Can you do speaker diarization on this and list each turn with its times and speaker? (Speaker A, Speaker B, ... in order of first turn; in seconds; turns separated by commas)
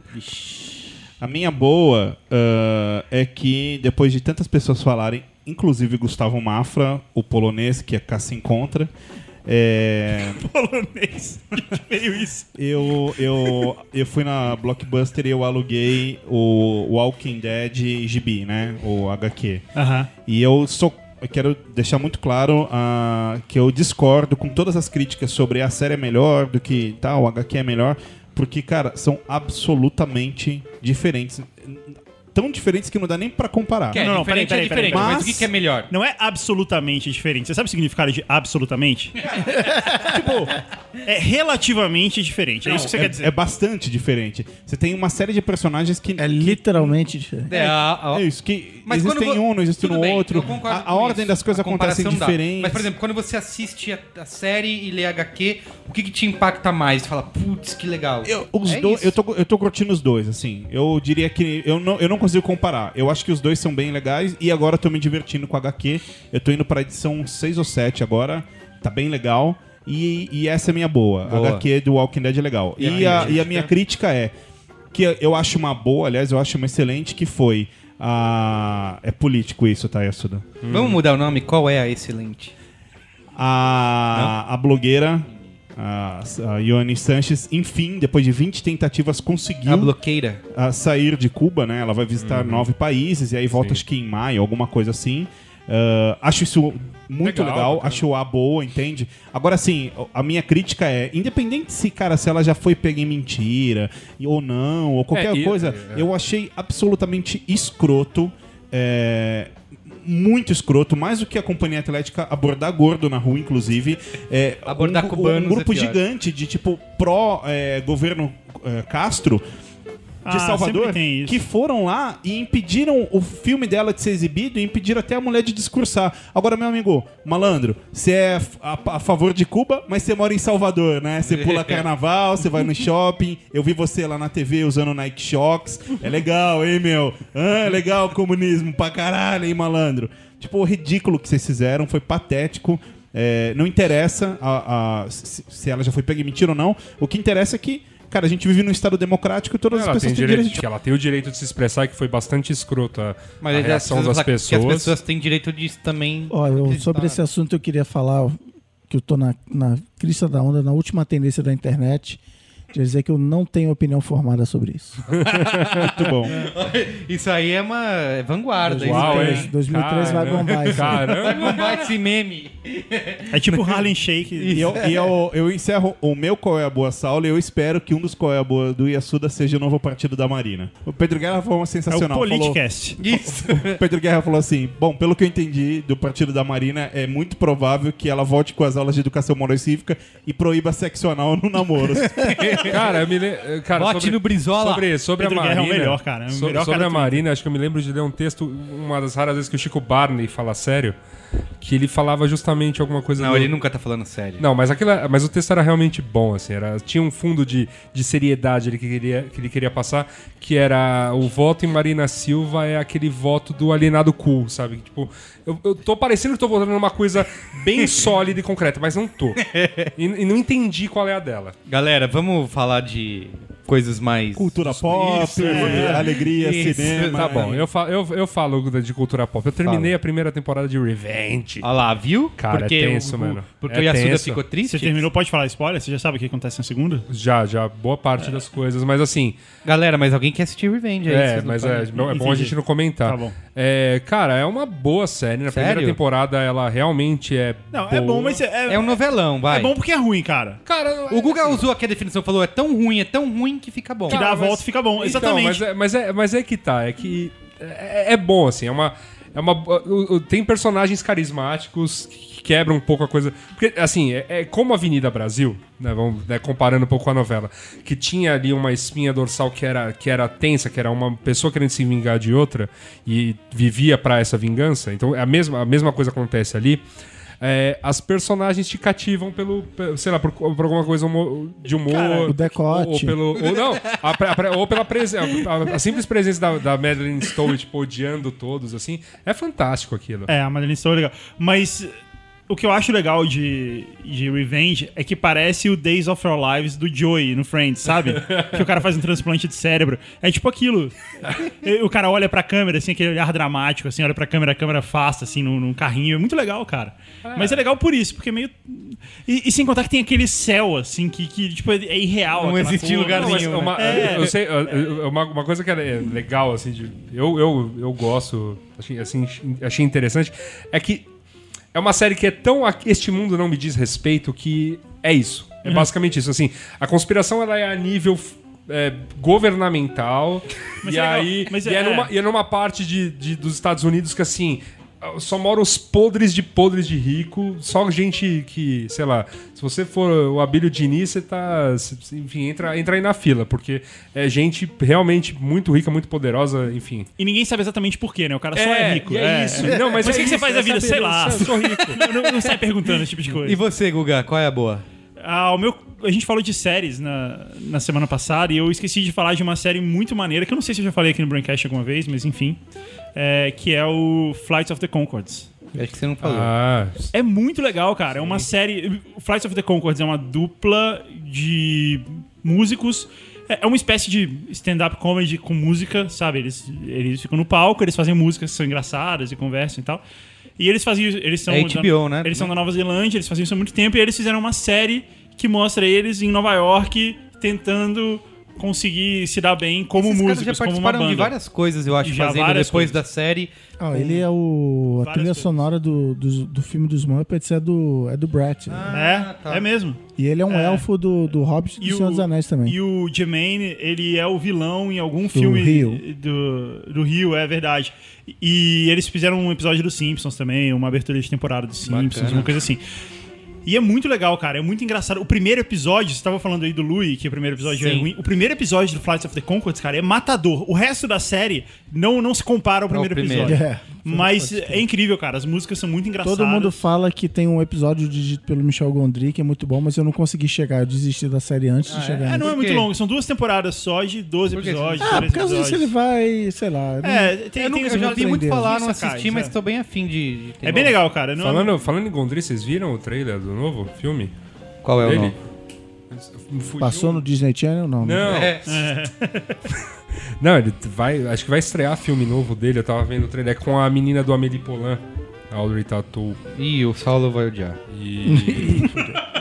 Speaker A: 0.2-0.8, Speaker B: 1.2-8.9, Speaker B: 9.4-10.4, Speaker C: 10.2-12.6, Speaker B: 12.6-19.7, Speaker C: 19.8-20.1, Speaker B: 20.2-34.0, Speaker A: 33.9-35.9, Speaker C: 33.9-39.4, Speaker B: 34.9-35.5, Speaker A: 39.3-40.1, Speaker C: 40.0-43.3, Speaker B: 42.6-47.0, Speaker D: 46.2-47.5, Speaker A: 47.5-48.2, Speaker B: 47.5-52.9, Speaker A: 48.9-59.1, Speaker B: 58.2-74.3, Speaker A: 71.3-71.7, Speaker A: 72.8-73.7, Speaker B: 74.9-80.5, Speaker E: 80.6-81.0, Speaker A: 80.7-82.5, Speaker B: 83.3-90.0, Speaker A: 89.7-90.4, Speaker B: 90.5-119.4, Speaker E: 92.2-92.7, Speaker E: 93.5-93.8, Speaker E: 97.2-98.0, Speaker E: 105.1-106.1, Speaker A: 114.7-116.0, Speaker C: 120.2-121.4, Speaker B: 120.3-150.7, Speaker A: 131.2-131.9, Speaker E: 149.7-155.0, Speaker A: 153.4-157.2, Speaker D: 156.3-162.2, Speaker D: 162.7-165.0, Speaker E: 165.1-165.9, Speaker A: 165.2-169.5, Speaker B: 165.8-166.3, Speaker D: 168.7-171.3, Speaker E: 168.8-171.6, Speaker A: 170.9-175.1, Speaker C: 173.3-174.7, Speaker B: 174.5-192.9, Speaker C: 181.9-183.0, Speaker A: 183.0-183.8, Speaker A: 192.0-192.9, Speaker E: 192.7-201.0, Speaker A: 193.7-194.9, Speaker C: 195.2-197.2, Speaker E: 201.6-203.5, Speaker A: 203.2-204.4, Speaker E: 204.4-221.6, Speaker A: 219.4-219.9, Speaker A: 221.7-227.4, Speaker B: 224.3-227.7, Speaker E: 224.7-225.8, Speaker C: 225.4-226.1, Speaker E: 227.1-231.7, Speaker A: 229.6-229.9, Speaker A: 231.6-235.1, Speaker E: 232.4-234.4, Speaker C: 234.6-237.1, Speaker E: 237.1-239.4, Speaker A: 239.7-241.9, Speaker E: 241.1-248.4, Speaker C: 241.9-243.4, Speaker A: 245.5-246.0, Speaker C: 247.7-250.6, Speaker A: 248.7-249.8, Speaker E: 250.7-251.7, Speaker A: 251.1-254.2, Speaker C: 254.1-255.6, Speaker E: 254.1-276.8, Speaker E: 277.4-290.3, Speaker C: 281.9-282.3, Speaker D: 282.3-283.2, Speaker A: 283.5-284.0, Speaker C: 290.3-291.9, Speaker C: 292.5-314.4, Speaker E: 307.2-307.6, Speaker A: 312.3-314.3, Speaker E: 313.1-321.1, Speaker E: 321.7-347.1, Speaker C: 330.8-332.1, Speaker C: 347.2-353.6, Speaker E: 348.6-352.0, Speaker A: 350.0-350.2, Speaker A: 351.4-352.6, Speaker A: 353.4-354.9, Speaker C: 355.2-362.6, Speaker C: 363.1-365.5, Speaker A: 365.7-366.5, Speaker E: 366.2-367.1, Speaker C: 367.1-380.0, Speaker C: 380.6-391.4, Speaker A: 381.5-382.5, Speaker A: 389.9-394.1, Speaker C: 392.0-393.0, Speaker D: 393.8-398.9, Speaker C: 395.0-395.6, Speaker A: 398.7-399.6, Speaker C: 398.9-400.9, Speaker D: 400.2-402.8, Speaker C: 401.8-412.8, Speaker D: 405.3-406.0, Speaker A: 411.9-412.5, Speaker C: 413.6-426.8, Speaker A: 417.7-418.1, Speaker A: 422.9-423.6, Speaker D: 423.4-424.9, Speaker D: 426.2-432.5, Speaker A: 431.9-432.9, Speaker C: 432.2-435.9, Speaker A: 434.5-435.3, Speaker D: 435.0-438.7, Speaker C: 437.0-439.5, Speaker A: 437.6-441.0, Speaker C: 440.6-441.7, Speaker E: 441.4-444.3, Speaker A: 444.8-445.4, Speaker E: 445.0-445.4, Speaker E: 446.1-447.3, Speaker D: 446.8-448.5, Speaker E: 448.0-448.6, Speaker A: 448.2-448.7, Speaker C: 448.6-449.6, Speaker E: 450.4-456.4, Speaker A: 456.6-457.8, Speaker E: 457.9-459.1, Speaker D: 458.2-459.2